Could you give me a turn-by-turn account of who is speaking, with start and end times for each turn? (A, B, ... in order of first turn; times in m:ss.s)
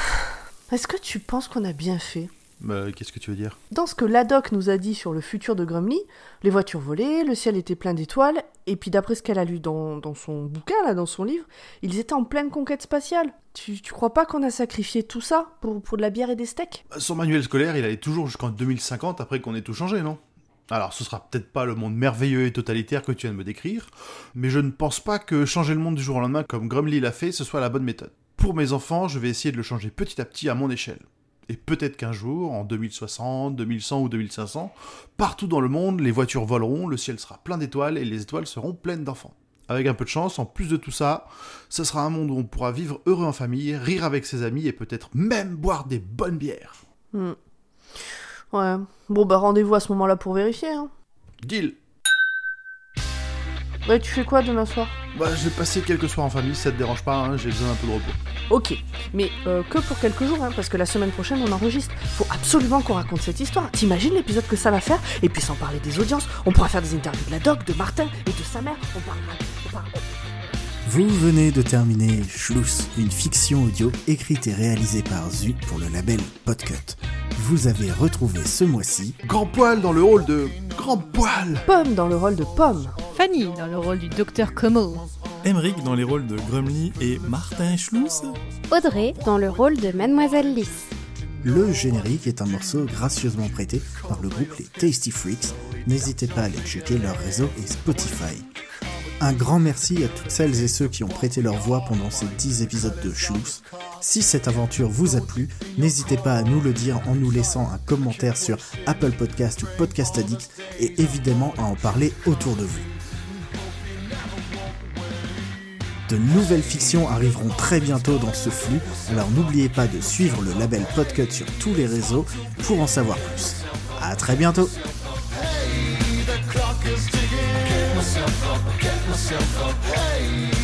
0:00.7-0:02.3 A
0:02.6-0:03.6 B
0:03.7-0:16.8 A
0:16.9-0:46.8 B
0:48.5-0:50.9 A
0:51.4-0:51.8 B
0:53.8-0:55.0 A
0:55.1-0:58.2 B
0:58.5-1:10.0 A
1:10.8-1:19.2 C
1:19.2-1:21.7 B
1:21.7-1:23.0 A
1:23.1-1:25.0 D
1:25.4-1:28.4 E
1:28.7-1:30.8 F
1:31.4-1:38.5 C
1:39.2-1:52.9 C
1:56.1-2:04.8 C